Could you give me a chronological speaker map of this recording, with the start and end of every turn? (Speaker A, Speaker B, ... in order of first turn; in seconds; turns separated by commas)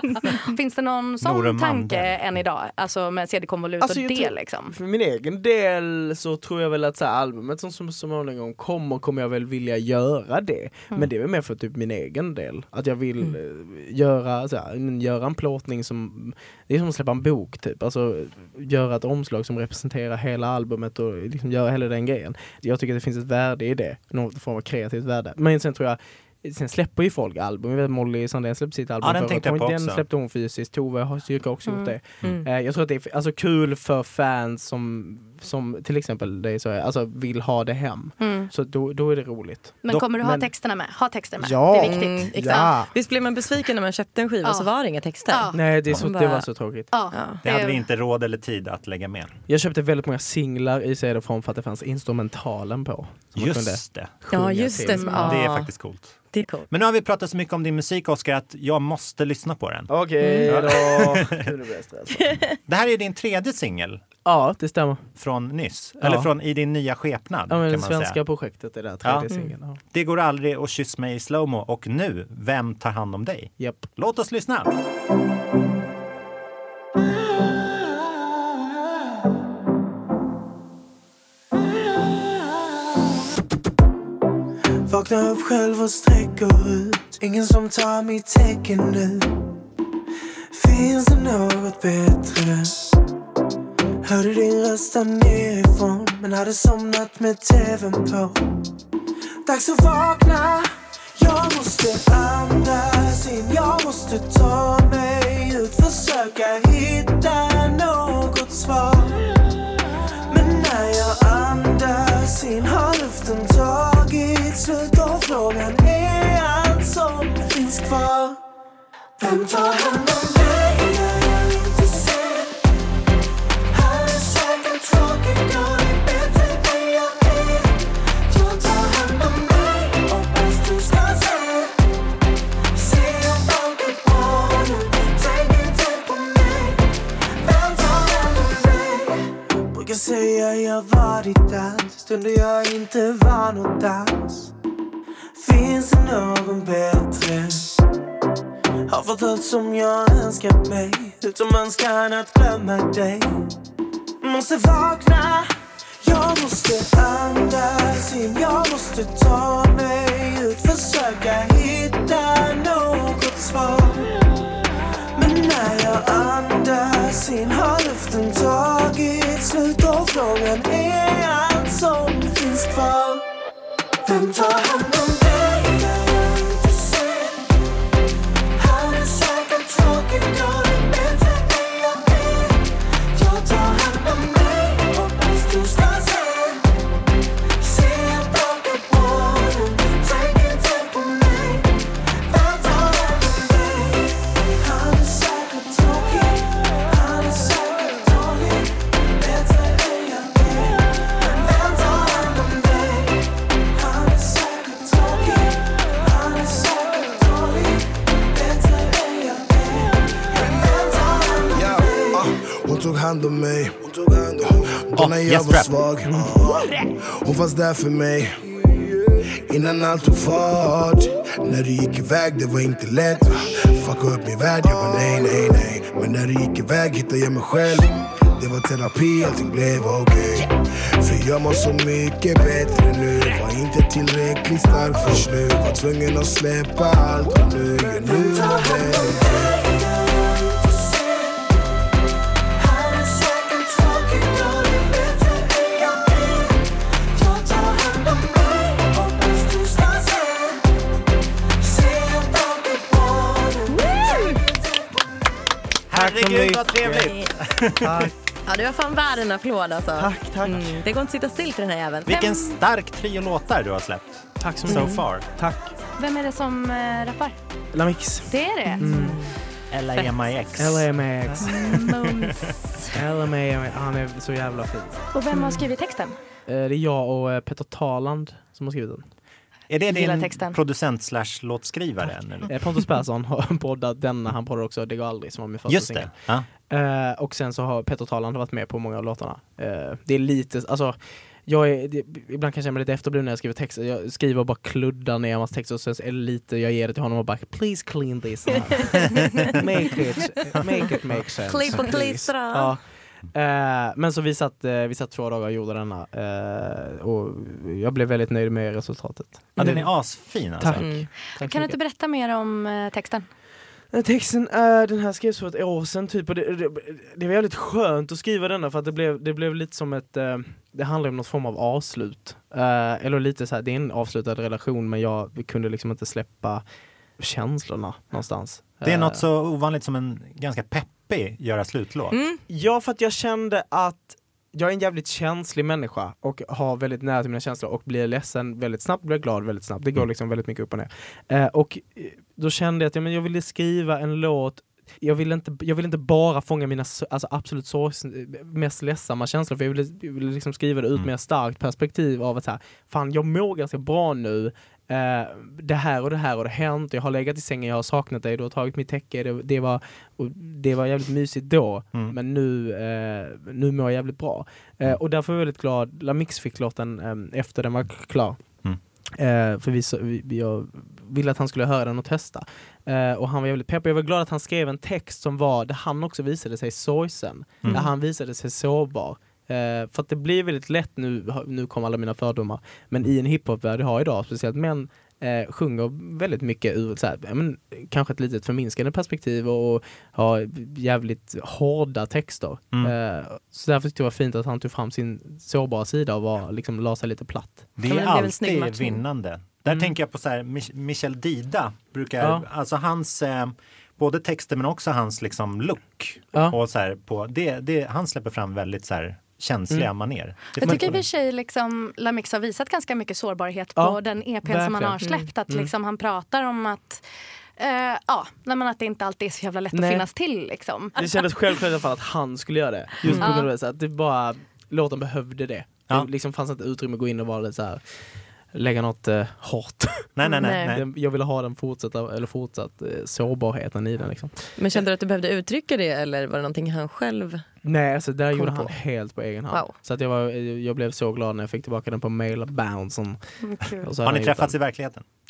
Speaker A: 0.1-4.7, Speaker B: 1.2-2.2, Speaker C: 3.8-40.5, Speaker B: 29.0-30.0, Speaker A: 31.7-31.9, Speaker A: 38.2-38.5, Speaker A: 39.8-42.7, Speaker C: 41.4-42.9, Speaker D: 41.8-46.5, Speaker A: 44.4-44.7, Speaker A: 45.3-45.6, Speaker C: 45.5-46.9, Speaker A: 46.9-47.8, Speaker D: 47.1-47.4, Speaker B: 47.4-49.3, Speaker C: 49.5-55.4, Speaker B: 53.4-54.1, Speaker D: 54.3-55.7, Speaker A: 54.9-55.3, Speaker B: 55.1-56.2, Speaker D: 56.3-56.7, Speaker B: 56.7-59.9, Speaker C: 59.9-62.2, Speaker D: 60.2-60.7, Speaker B: 60.5-61.5, Speaker B: 62.7-64.0, Speaker C: 64.2-65.0, Speaker B: 65.2-68.2, Speaker C: 66.0-66.3, Speaker C: 67.5-69.8, Speaker B: 69.0-69.3, Speaker B: 69.9-74.7, Speaker C: 73.6-73.8, Speaker E: 84.9-89.2, Speaker E: 90.6-92.7, Speaker E: 94.1-98.3, Speaker E: 99.5-100.6, Speaker E: 101.2-109.1, Speaker E: 110.3-118.3, Speaker E: 119.2-122.5, Speaker E: 123.7-127.8, Speaker E: 128.3-131.7, Speaker E: 132.8-136.8, Speaker E: 137.4-139.1, Speaker E: 139.7-144.5, Speaker E: 145.4-147.7, Speaker E: 148.9-153.2, Speaker E: 154.2-155.4, Speaker E: 156.0-164.1, Speaker E: 165.2-173.2, Speaker E: 174.1-177.4, Speaker E: 178.6-182.6, Speaker E: 183.2-186.6, Speaker E: 187.6-191.7, Speaker E: 192.3-194.0, Speaker E: 194.6-196.4, Speaker E: 196.9-200.8, Speaker E: 201.3-203.1, Speaker E: 203.8-205.5, Speaker E: 206.1-207.8, Speaker E: 208.3-212.2, Speaker F: 211.5-218.4, Speaker B: 215.0-215.7, Speaker C: 216.1-216.3, Speaker F: 219.4-239.5, Speaker E: 238.2-241.4, Speaker E: 242.6-246.5, Speaker E: 247.2-250.6, Speaker E: 251.6-254.3, Speaker D: 253.8-254.4, Speaker B: 255.9-258.1, Speaker C: 255.9-257.1, Speaker C: 257.8-258.1, Speaker D: 258.4-262.2, Speaker C: 259.9-260.7, Speaker B: 262.1-265.3, Speaker A: 262.1-262.4, Speaker C: 264.4-265.7, Speaker D: 264.7-265.0, Speaker A: 266.0-267.3, Speaker C: 267.7-269.2, Speaker A: 268.3-268.9, Speaker D: 268.8-269.3, Speaker B: 269.7-271.8, Speaker C: 270.6-271.9, Speaker A: 271.4-272.9, Speaker C: 272.9-275.0, Speaker A: 275.1-276.1, Speaker D: 275.3-275.6, Speaker C: 276.5-279.1, Speaker B: 279.7-282.5, Speaker A: 279.9-280.6, Speaker C: 282.5-310.0, Speaker B: 285.7-286.5, Speaker D: 299.1-299.5, Speaker D: 301.4-302.7, Speaker B: 309.6-310.8, Speaker C: 310.6-311.8, Speaker D: 310.8-311.1, Speaker A: 311.3-313.3, Speaker C: 313.9-326.6, Speaker C: 327.2-329.2, Speaker B: 328.8-332.1, Speaker D: 332.1-332.4, Speaker C: 332.5-368.4, Speaker C: 369.2-397.7, Speaker B: 397.8-411.0, Speaker D: 397.8-399.0, Speaker C: 402.2-402.4, Speaker A: 410.6-417.0, Speaker C: 410.6-410.9, Speaker C: 413.8-415.7, Speaker A: 417.6-421.0, Speaker C: 419.7-420.1, Speaker C: 420.9-427.8, Speaker A: 423.2-423.5, Speaker C: 428.5-434.3, Speaker B: 430.1-430.8, Speaker D: 430.4-430.7, Speaker D: 434.6-437.4, Speaker C: 437.6-443.2, Speaker D: 438.3-438.8, Speaker D: 439.5-439.8, Speaker A: 443.4-443.9, Speaker C: 443.8-444.6, Speaker B: 444.0-445.0